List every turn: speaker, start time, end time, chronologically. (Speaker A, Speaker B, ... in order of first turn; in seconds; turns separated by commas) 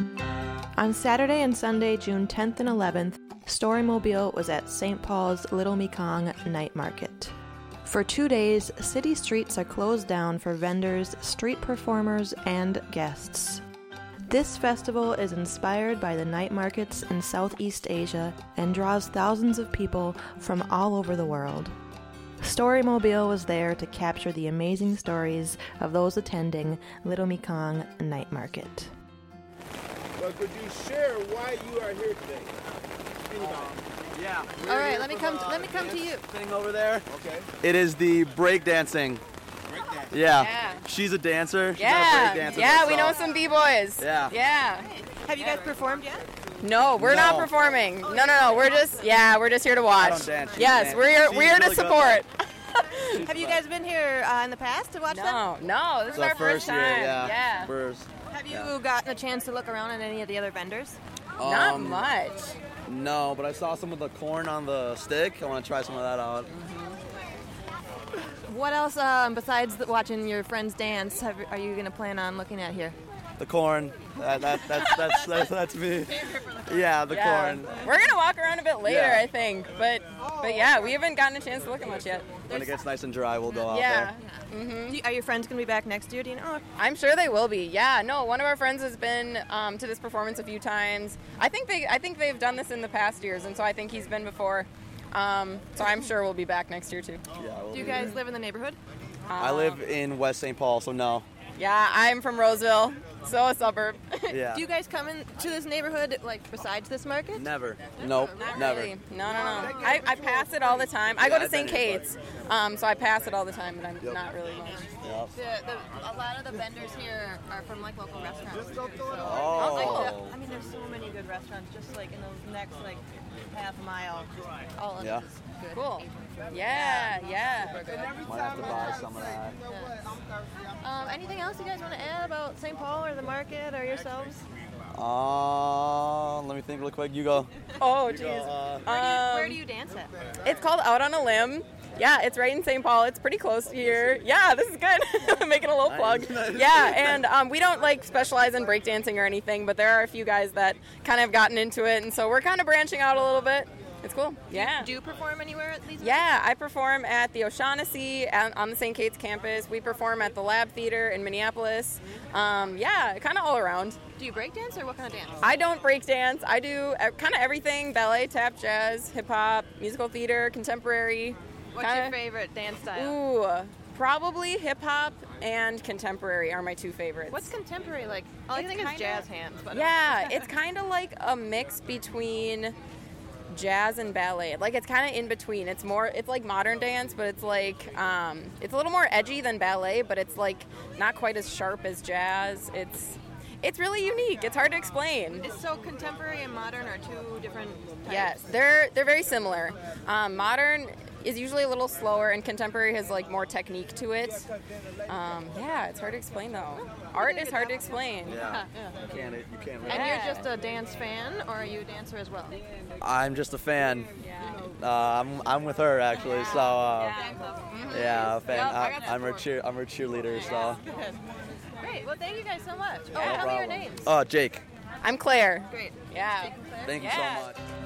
Speaker A: 0.8-7.3, Speaker A: 7.8-13.6, Speaker A: 14.3-21.7, Speaker A: 22.4-28.9, Speaker B: 30.2-32.6, Speaker B: 33.3-33.9, Speaker C: 34.1-39.2, Speaker D: 34.6-36.2, Speaker B: 37.1-37.5, Speaker C: 40.1-43.2, Speaker E: 40.3-40.8, Speaker E: 41.8-44.9, Speaker C: 44.0-44.3, Speaker D: 44.9-46.3, Speaker E: 46.6-53.2, Speaker C: 47.0-47.5, Speaker D: 48.1-48.9, Speaker C: 50.0-52.2, Speaker D: 50.4-51.0, Speaker C: 53.1-53.6, Speaker D: 53.1-55.4, Speaker E: 55.1-57.7, Speaker C: 56.1-58.7, Speaker D: 58.3-61.0, Speaker C: 61.4-62.1, Speaker E: 61.4-62.5, Speaker C: 62.9-66.5, Speaker E: 66.5-67.0, Speaker D: 68.5-72.9, Speaker C: 73.4-77.9, Speaker E: 77.1-82.4, Speaker C: 78.8-79.3, Speaker D: 82.5-82.8, Speaker C: 82.5-84.1, Speaker E: 83.7-85.0, Speaker D: 84.9-86.6, Speaker E: 86.8-97.2, Speaker C: 97.3-98.2, Speaker D: 97.7-98.8, Speaker E: 97.8-98.2, Speaker E: 99.3-99.8, Speaker C: 99.4-101.2, Speaker E: 101.5-104.4, Speaker C: 104.3-104.6, Speaker D: 104.5-108.6, Speaker C: 107.3-109.0, Speaker E: 108.4-114.9, Speaker D: 109.3-110.2, Speaker C: 111.2-112.0, Speaker C: 115.0-115.3, Speaker D: 115.3-127.2, Speaker C: 119.2-120.4, Speaker E: 119.5-120.2, Speaker C: 125.0-125.2, Speaker E: 125.7-128.1, Speaker C: 128.2-129.6, Speaker D: 128.6-128.9, Speaker D: 129.6-130.1, Speaker D: 130.8-134.4, Speaker C: 134.9-138.9, Speaker E: 137.8-139.6, Speaker D: 138.9-140.1, Speaker E: 140.4-154.9, Speaker C: 143.7-144.2, Speaker C: 145.8-147.2, Speaker D: 154.5-156.3, Speaker E: 156.0-164.0, Speaker D: 164.2-165.5, Speaker E: 165.4-172.2, Speaker D: 171.7-173.2, Speaker E: 172.9-177.5, Speaker D: 177.3-180.4, Speaker E: 178.5-182.8, Speaker E: 183.5-195.5, Speaker D: 195.4-198.4, Speaker E: 198.0-204.5, Speaker E: 205.1-208.4, Speaker D: 207.1-207.9, Speaker C: 208.2-210.5, Speaker D: 208.4-208.9, Speaker D: 209.8-212.6, Speaker E: 209.8-210.5, Speaker C: 213.0-214.1, Speaker E: 214.2-214.6, Speaker C: 214.6-217.2, Speaker E: 216.2-219.4, Speaker D: 216.3-217.7, Speaker C: 217.9-220.8, Speaker D: 220.3-221.2, Speaker D: 221.8-224.1, Speaker E: 223.1-223.5, Speaker C: 223.1-224.6, Speaker E: 225.0-227.5, Speaker D: 225.7-227.0, Speaker C: 226.8-227.6